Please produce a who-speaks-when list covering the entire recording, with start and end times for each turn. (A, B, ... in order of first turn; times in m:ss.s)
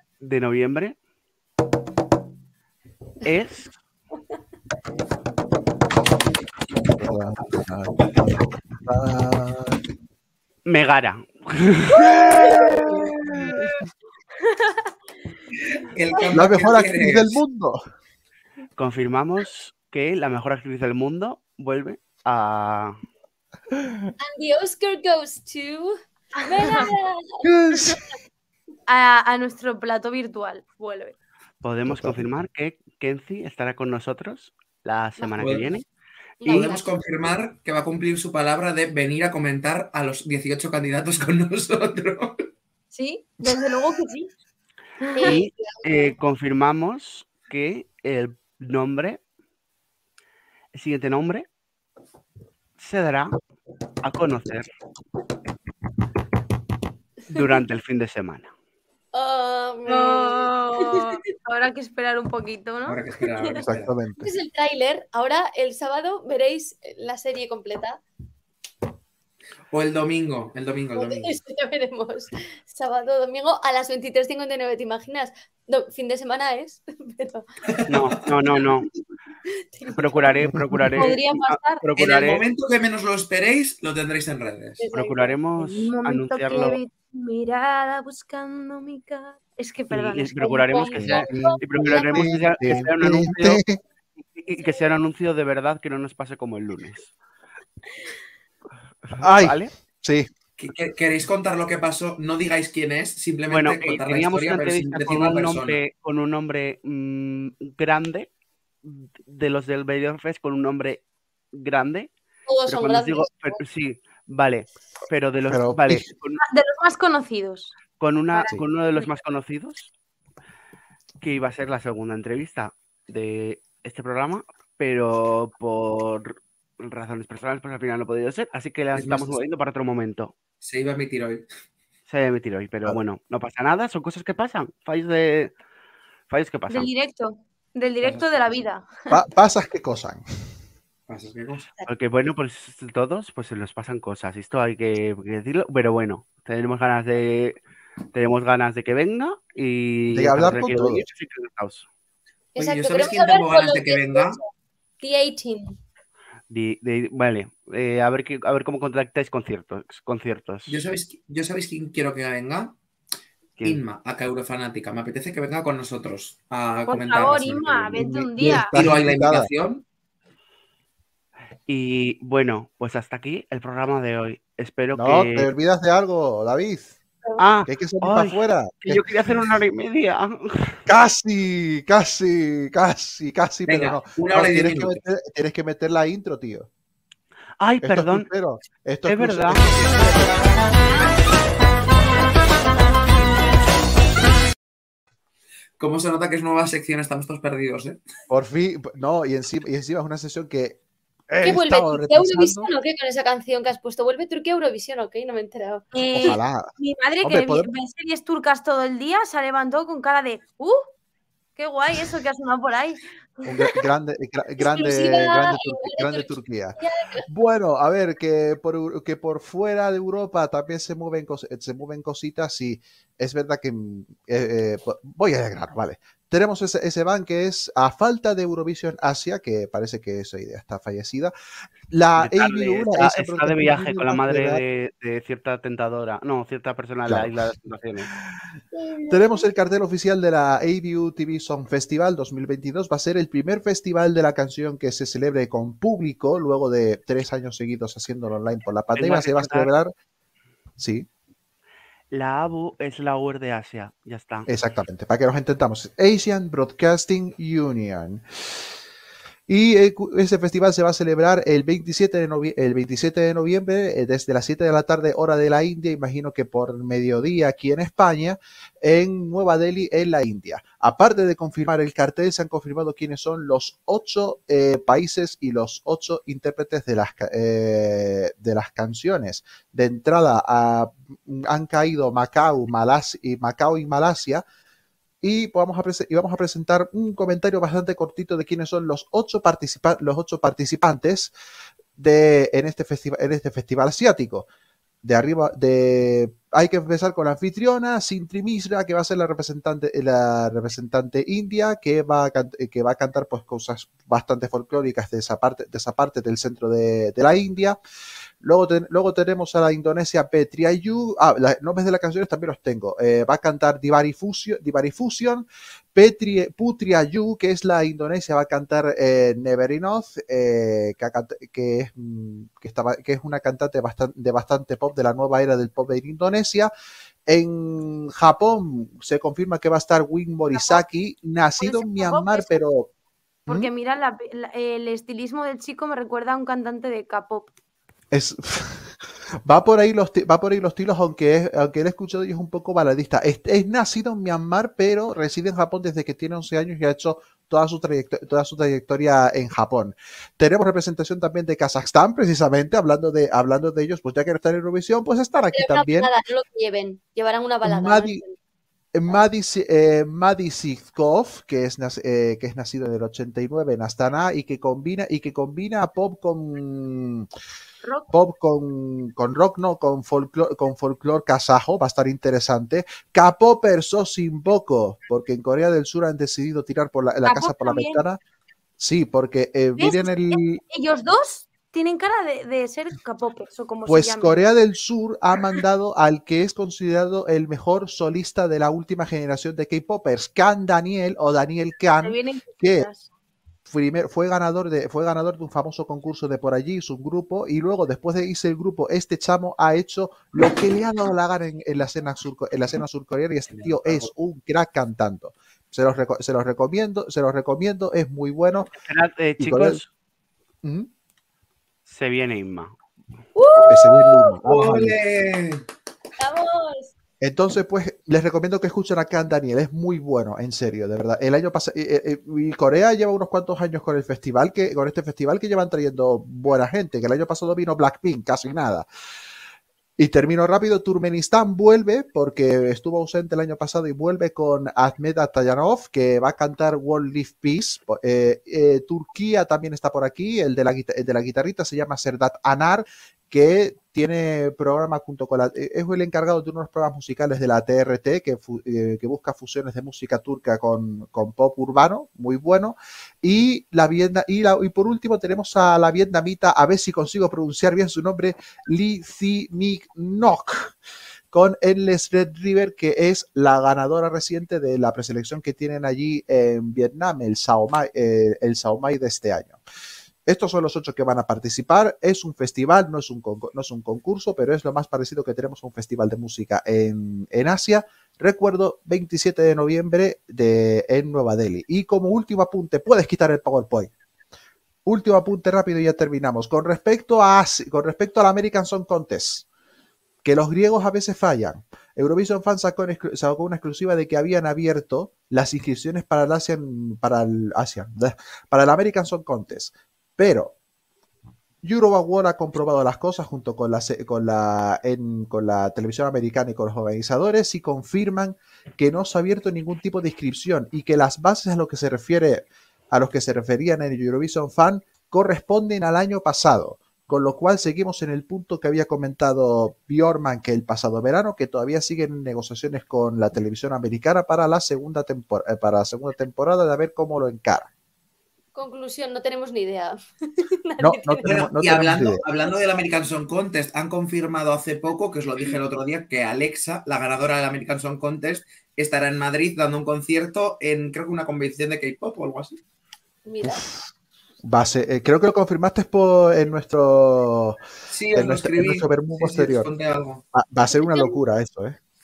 0:00.2-0:00.9 A
0:03.2-0:03.7 A
0:07.0-0:09.8 B
0:10.6-0:12.0 A
0:12.0-0:13.1 B
0:15.9-0:17.4 C
0:16.3-0:17.8 B
0:18.8-0:23.0 A
0:24.2-0:27.4 D
0:26.5-0:26.9 E
0:27.4-0:28.0 B
0:28.9-0:31.1 E
0:31.6-0:35.8 A
0:31.9-0:32.3 B
0:35.4-0:35.7 C
0:36.4-0:36.9 D
0:36.4-0:42.5 C
0:42.9-0:44.3 E
0:45.0-0:45.4 E
0:45.2-0:46.1 D
0:45.2-0:49.2 A
0:50.7-0:51.4 A
0:52.8-0:53.3 A
0:54.0-0:54.7 A
0:57.3-0:58.5 A
0:59.1-1:01.1 D
0:59.9-1:03.5 E
1:02.8-1:03.9 C
1:03.6-1:04.3 B
1:04.2-1:08.0 D
1:09.7-1:11.3 C
1:10.9-1:17.4 D
1:17.7-1:18.1 C
1:17.9-1:18.9 A
1:19.7-1:20.4 D
1:20.0-1:22.4 A
1:20.5-1:21.0 B
1:21.0-1:21.8 E
1:22.0-1:24.8 C
1:24.8-1:25.4 D
1:24.9-1:26.8 A
1:25.6-1:31.2 E
1:29.9-1:33.6 A
1:30.7-1:32.8 D
1:31.0-1:33.8 B
1:34.2-1:37.1 A
1:39.1-1:39.7 A
1:39.2-1:40.3 B
1:40.6-1:45.8 C
1:43.5-1:48.3 A
1:48.8-1:52.1 A
1:52.5-1:53.6 D
1:52.7-1:56.4 A
1:55.5-1:56.0 B
1:56.4-1:57.7 E
1:58.0-1:59.9 A
2:01.2-2:10.4 A
2:08.9-2:09.4 C
2:10.6-2:11.4 C
2:12.1-2:15.5 A
2:16.3-2:16.9 A
2:16.7-2:18.9 E
2:19.1-2:20.2 B
2:21.1-2:21.7 C
2:21.9-2:27.6 A
2:28.1-2:31.9 A
2:30.1-2:31.1 B
2:32.5-2:34.5 D
2:32.6-2:34.4 C
2:35.0-2:35.8 D
2:36.5-2:40.8 A
2:40.7-2:42.8 C
2:43.6-2:49.8 C
2:46.9-2:48.7 E
2:48.0-2:49.5 B
2:51.7-2:55.5 A
2:54.9-2:57.0 B
2:57.4-3:00.8 A
2:57.7-2:59.1 B
3:00.9-3:06.7 B
3:03.6-3:05.0 C
3:07.6-3:08.3 A
3:07.8-3:10.6 B
3:09.1-3:09.6 A
3:15.8-3:18.0 C
3:18.3-3:20.8 B
3:21.3-3:22.7 B
3:21.4-3:26.3 D
3:25.9-3:30.8 E
3:26.2-3:26.7 B
3:27.2-3:27.7 B
3:31.6-3:33.0 E
3:33.4-3:51.3 B
3:34.6-3:37.2 D
3:51.9-3:54.6 B
3:52.2-3:58.1 A
3:57.1-3:57.3 B
3:58.9-3:59.3 D
3:59.1-4:09.9 B
4:09.0-4:09.7 A
4:10.8-4:11.1 B
4:12.1-4:14.5 A
4:14.5-4:18.6 B
4:19.5-4:44.4 B
4:45.2-4:51.3 B
4:52.0-4:54.5 B
4:55.0-5:07.8 B
5:08.4-5:26.7 B
5:27.3-5:32.9 B
5:30.5-5:30.8 E
5:31.6-5:32.6 E
5:33.5-5:37.5 E
5:38.1-5:38.9 B
5:39.4-5:56.1 B
5:55.5-5:58.3 D
5:57.6-5:58.2 B
5:58.9-6:07.3 B
6:07.8-6:08.1 E
6:08.1-6:18.2 B
6:17.2-6:18.0 E
6:18.8-6:20.6 B
6:19.8-6:24.4 E
6:23.8-6:32.9 B
6:32.0-6:33.1 E
6:33.6-6:48.7 B
6:43.5-6:44.1 C
6:48.8-6:49.9 A
6:49.4-6:49.8 B
6:50.6-6:50.9 B
6:51.8-6:52.7 A
6:53.4-6:54.4 D
6:53.6-6:55.0 B
6:54.4-6:55.6 C
6:56.2-6:56.9 D
6:57.2-7:08.8 B
7:10.0-7:40.7 B
7:41.3-7:49.6 B
7:50.2-8:03.9 B
8:04.8-8:09.4 B
8:10.2-8:20.6 B
8:21.6-8:47.7 B
8:48.5-8:51.3 D
8:50.8-8:52.2 B
8:51.2-9:02.6 C
9:03.2-9:03.7 D
9:03.4-9:03.9 B
9:04.4-9:07.6 B
9:07.9-9:10.2 C
9:08.1-9:09.7 B
9:10.3-9:11.8 B